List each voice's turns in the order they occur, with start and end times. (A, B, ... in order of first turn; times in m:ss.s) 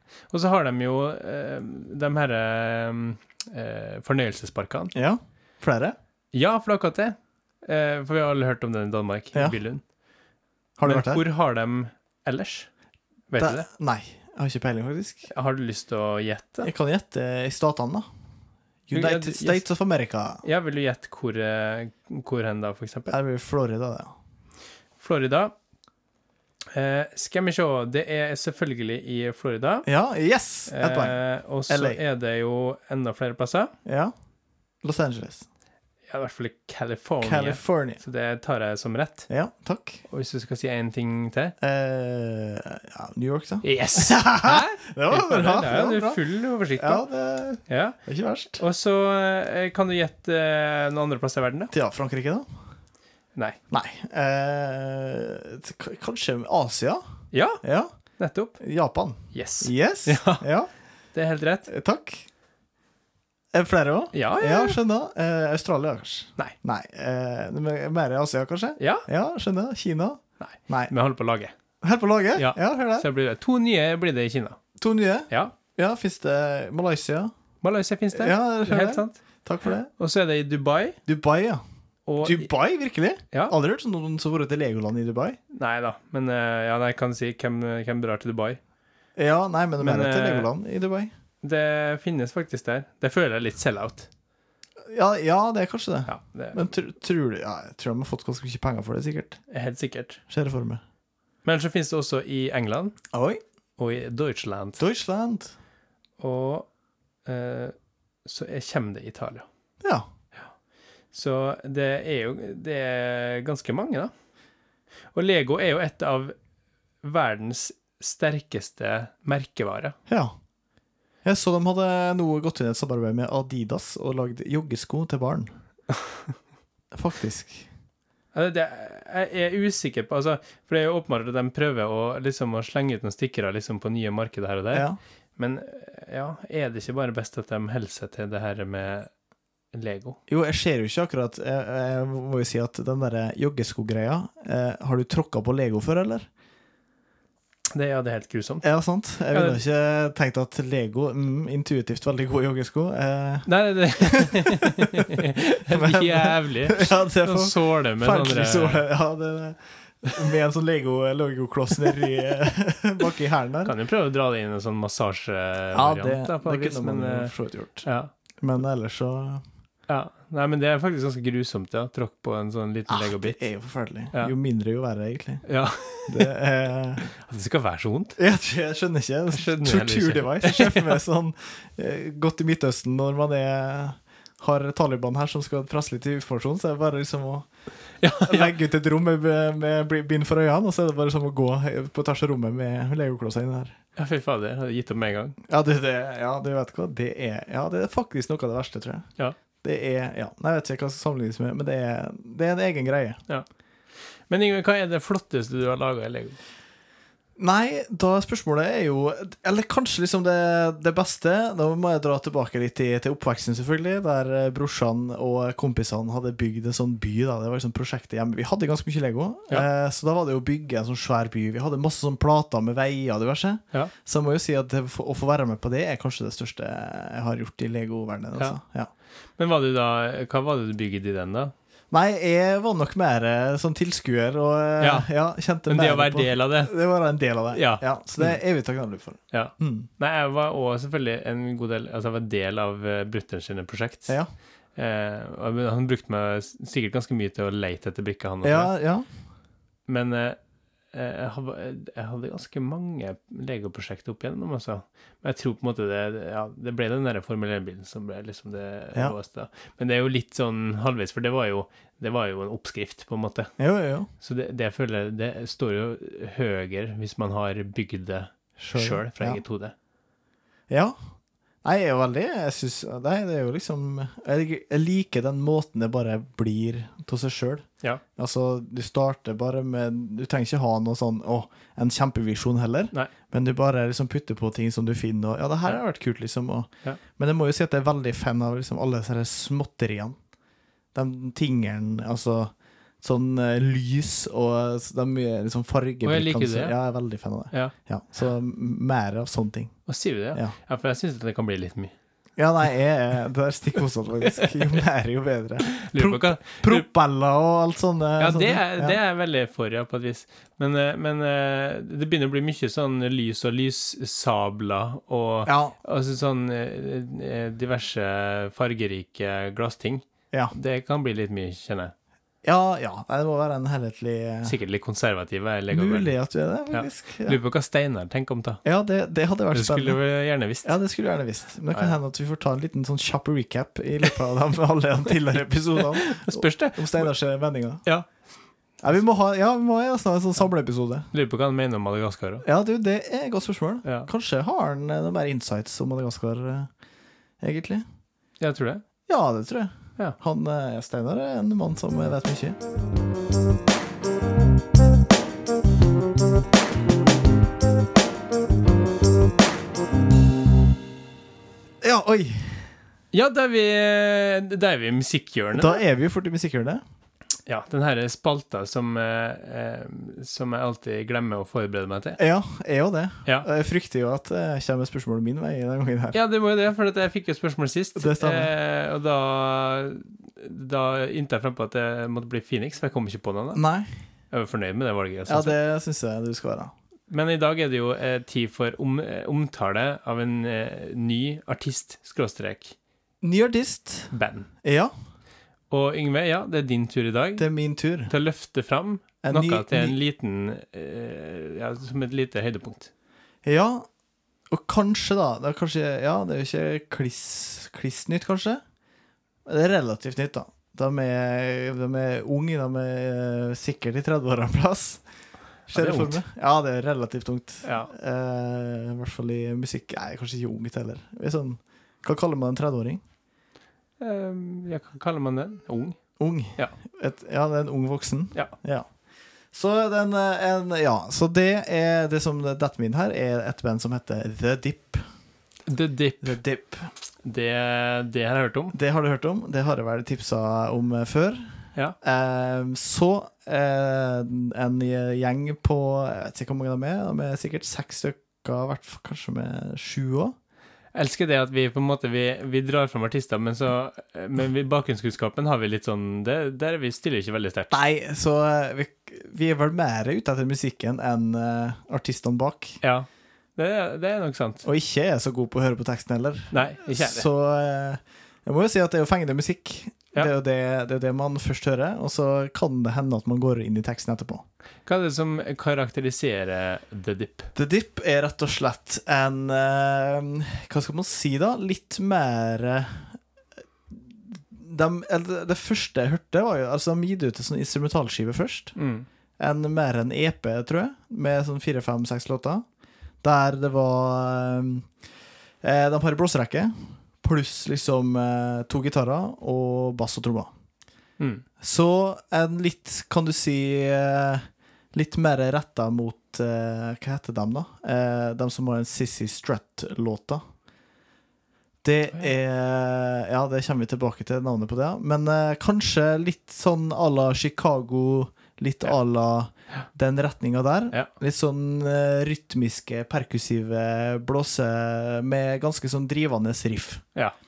0:00.3-0:04.9 A
0:04.9-0:06.0 B
0:06.3-0:09.8 A
0:10.8-0:11.2 B
0:10.8-0:12.7 A
0:13.3-0:13.7 A
0:13.4-0:15.3 B
0:15.3-0:16.7 A
0:16.6-0:18.1 B
0:18.9-0:20.4 B
0:18.9-0:19.6 A
0:20.4-0:23.2 A
0:23.1-0:24.1 B
0:25.0-0:25.5 A
0:26.7-0:29.9 A
0:29.9-0:31.2 B
0:30.7-0:33.7 A
0:31.7-0:32.0 B
0:33.8-0:34.1 B
0:34.8-0:35.4 B
0:36.1-0:39.3 A
0:37.2-0:38.0 B
0:39.3-0:40.0 B
0:40.1-0:41.6 A
0:41.6-0:46.2 B
0:43.6-0:47.0 A
0:46.8-0:48.6 B
0:47.7-0:48.0 A
0:48.6-0:51.7 A
0:51.7-0:52.5 B
0:53.7-0:57.0 B
0:57.3-0:57.6 A
0:57.6-0:57.9 B
0:58.2-0:58.6 A
0:58.6-1:00.7 B
0:59.3-1:00.4 A
1:01.1-1:01.7 A
1:01.7-1:02.3 B
1:03.5-1:10.9 B
1:04.1-1:04.8 A
1:08.8-1:09.1 A
1:10.4-1:11.5 A
1:11.8-1:13.1 B
1:12.4-1:14.6 A
1:14.8-1:17.3 B
1:17.6-1:19.2 A
1:18.1-1:19.9 B
1:20.0-1:21.0 A
1:21.1-1:21.6 B
1:22.1-1:22.5 A
1:22.2-1:25.4 B
1:25.5-1:28.6 A
1:29.2-1:31.1 B
1:29.8-1:30.5 A
1:31.4-1:34.1 A
1:34.9-1:39.4 B
1:36.1-1:36.6 A
1:39.5-1:40.2 A
1:40.3-1:40.8 B
1:41.4-1:43.0 A
1:43.1-1:43.4 B
1:43.8-1:44.8 A
1:44.8-1:45.5 B
1:46.2-1:46.7 A
1:47.2-1:49.5 A
1:51.1-1:54.1 A
1:55.1-1:56.4 A
1:57.0-2:00.0 A
2:00.1-2:00.3 B
2:01.2-2:05.5 B
2:05.9-2:06.3 A
2:06.9-2:07.7 B
2:08.3-2:19.1 A
2:19.7-2:20.2 A
2:20.3-2:26.3 B
2:27.8-2:28.7 A
2:28.6-2:35.1 B
2:29.3-2:29.6 A
2:33.5-2:38.8 A
2:35.7-2:43.7 B
2:43.6-2:47.3 A
2:45.7-2:47.9 B
2:47.8-2:48.1 A
2:48.4-2:49.4 B
2:49.9-2:53.4 A
2:52.9-2:55.5 B
2:55.4-2:56.3 A
2:56.1-2:57.0 B
2:57.0-2:58.2 A
2:58.2-3:07.5 B
2:59.3-3:01.0 A
3:08.0-3:08.5 A
3:08.2-3:13.8 B
3:14.0-3:15.4 A
3:15.5-3:19.1 B
3:19.6-3:23.2 B
3:24.3-3:26.4 A
3:27.4-3:48.9 B
3:49.4-3:51.5 A
3:51.9-3:59.9 B
3:54.8-3:55.1 A
3:55.7-3:56.7 A
3:57.5-3:58.4 A
3:59.3-4:04.2 A
4:04.8-4:08.7 A
4:08.4-4:09.1 B
4:09.9-4:10.4 A
4:10.9-4:23.5 A
4:23.6-4:24.1 B
4:24.2-4:29.7 A
4:28.6-4:29.4 B
4:30.7-4:31.0 B
4:31.6-4:50.2 B
4:50.9-5:00.6 B
4:56.0-4:56.8 A
4:59.9-5:01.9 A
5:02.4-5:09.0 B
5:04.3-5:04.8 A
5:05.7-5:06.8 A
5:08.2-5:21.9 A
5:15.5-5:15.8 B
5:22.4-5:24.6 B
5:24.4-5:26.1 A
5:25.7-5:27.4 B
5:26.7-5:28.6 A
5:28.6-5:30.0 B
5:29.5-5:30.7 A
5:30.6-5:37.8 B
5:35.8-5:37.1 A
5:38.8-5:41.1 B
5:41.1-5:42.4 A
5:42.4-5:46.7 B
5:43.8-5:44.1 A
5:47.4-5:47.8 B
5:48.4-5:48.8 A
5:49.1-5:52.6 B
6:01.8-6:02.7 B
6:03.1-6:05.8 A
6:05.5-6:06.8 B
6:07.5-6:12.2 A
6:12.2-6:16.2 B
6:16.1-6:23.6 A
6:18.0-6:18.5 B
6:23.6-6:23.9 B
6:24.3-6:25.6 A
6:25.3-6:26.7 B
6:27.1-6:32.8 A
6:33.2-6:34.1 B
6:34.1-6:34.5 A
6:34.6-6:34.9 B
6:35.7-6:37.5 A
6:37.4-6:38.1 B
6:38.1-6:42.9 A
6:39.2-6:40.0 B
6:43.4-6:43.9 B
6:44.5-6:48.6 B
6:49.5-6:55.0 B
6:55.7-7:03.0 B
6:55.7-6:56.2 A
6:57.6-6:57.9 A
7:04.0-7:06.0 A
7:06.2-7:08.9 B
7:09.5-7:15.0 B
7:15.7-7:16.4 A
7:16.2-7:16.9 B
7:17.2-7:18.8 A
7:18.7-7:30.3 B
7:30.9-7:37.8 A
7:37.7-7:42.8 B
7:42.8-7:44.6 A
7:44.6-7:54.4 B
7:46.5-7:47.3 A
7:54.9-7:57.5 A
7:57.6-8:03.2 B
8:03.9-8:08.7 B
8:08.8-8:09.1 A
8:09.4-8:12.6 B
8:13.2-8:14.9 B
8:15.6-8:20.5 B
8:21.2-8:21.4 A
8:21.6-8:30.4 B
8:31.8-8:47.0 B